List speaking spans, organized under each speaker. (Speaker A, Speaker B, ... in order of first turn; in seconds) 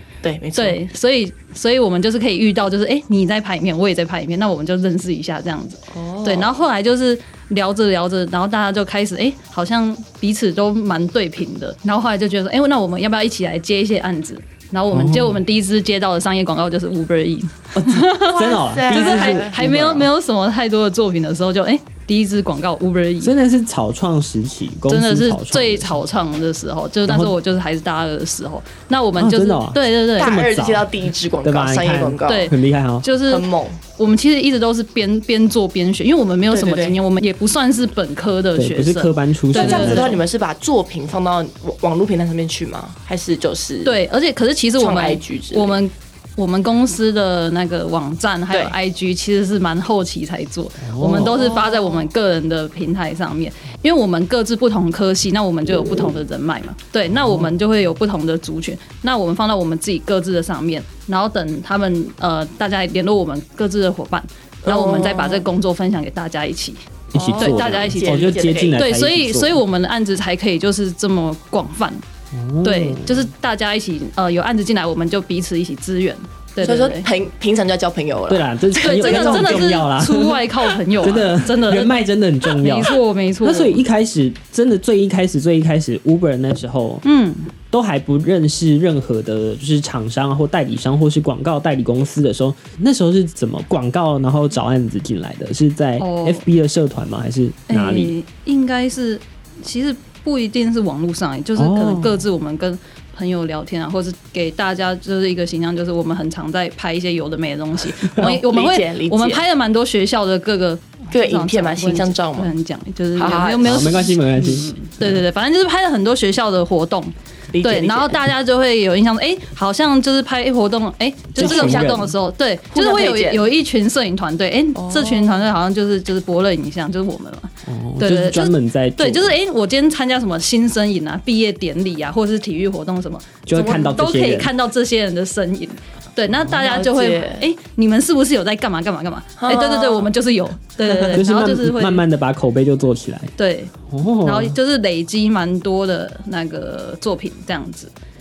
Speaker A: 0.2-0.8, 5.9-6.5, 18.2-19.5, 30.2-32.5, 33.3-33.8, 36.5-37.0, 39.5-44.0, 44.8-45.8, 51.2-52.0, 64.6-65.5, 67.3-68.8, 76.6-79.7, 108.1-109.4, 111.1-112.5, 113.2-114.1, 117.5-118.2, 121.4-122.0, 122.7-123.4, 124.7-125.5, 136.6-137.4, 139.4-140.1, 140.8-141.2
Speaker B: 0.6-23.3, 24.9-30.3, 32.2-40.2, 43.8-72.0, 72.6-77.1, 78.8-83.8, 87.0-87.5, 96.0-96.4, 97.7-142.0, 143.4-147.9
Speaker C: 14.9-15.4, 17.7-20.1, 23.2-26.0, 27.1-27.4, 29.2-30.9, 31.4-33.0, 38.5-40.1, 50.8-51.4, 57.1-57.5, 67.1-69.6, 72.3-73.3, 78.3-87.0, 87.7-98.1, 101.5-102.2, 113.6-115.2, 121.3-122.1, 127.7-129.3, 133.4-134.5, 141.1-143.3, 143.9-144.5